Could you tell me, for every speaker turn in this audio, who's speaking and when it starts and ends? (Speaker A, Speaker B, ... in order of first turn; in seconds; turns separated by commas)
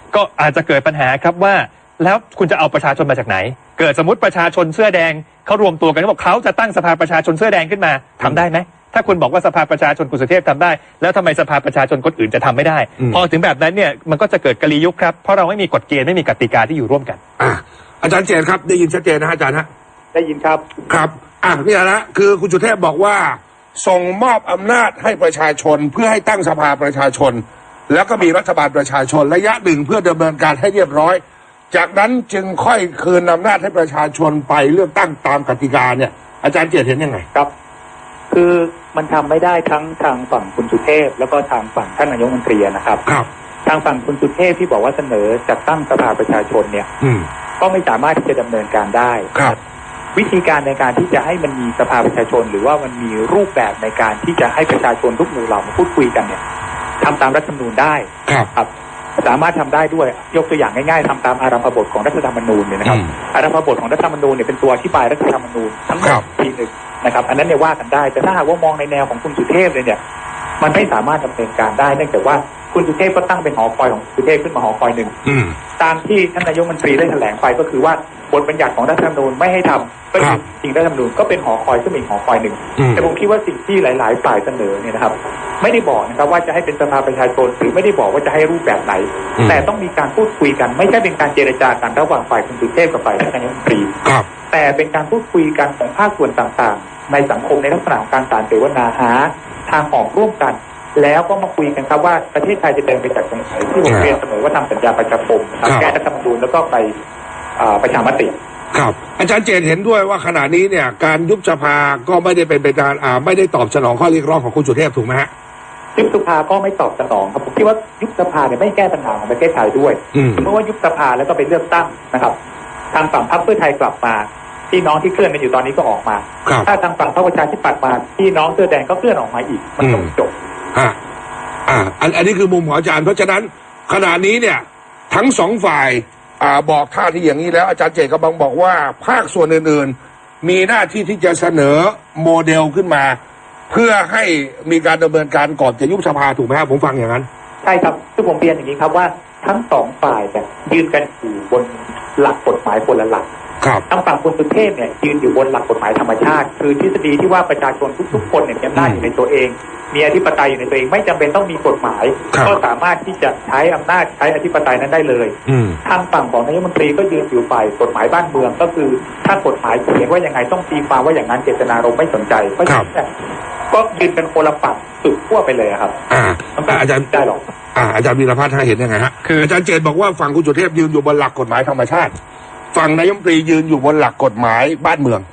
Speaker A: 0.1-17.2, Speaker B: 17.4-19.7, Speaker C: 20.1-20.6, Speaker B: 20.9-37.2, Speaker C: 38.3-43.0, Speaker C: 43.6-46.9, Speaker B: 47.0-47.3, Speaker C: 47.6-49.6, Speaker C: 50.1-56.4, Speaker C: 57.0-58.7, Speaker C: 59.2-70.0, Speaker B: 62.8-63.1, Speaker B: 66.0-66.2, Speaker C: 70.6-75.1, Speaker B: 75.2-75.5, Speaker C: 75.8-93.9, Speaker B: 82.8-83.0, Speaker B: 89.4-89.6, Speaker C: 94.5-106.9, Speaker B: 103.8-104.2, Speaker B: 105.6-106.0, Speaker C: 107.6-108.3, Speaker B: 108.7-115.3, Speaker C: 116.0-122.3, Speaker B: 120.1-120.5, Speaker C: 122.9-130.3, Speaker B: 129.8-130.1, Speaker B: 131.7-143.2, Speaker B: 143.7-147.3, Speaker C: 147.6-153.3, Speaker C: 153.9-173.1, Speaker B: 158.7-159.0, Speaker B: 162.3-162.6, Speaker B: 165.5-165.8, Speaker C: 173.7-176.0, Speaker B: 176.1-177.1, Speaker C: 176.5-177.4, Speaker B: 177.7-182.1, Speaker A: 179.2-179.5, Speaker B: 182.7-185.2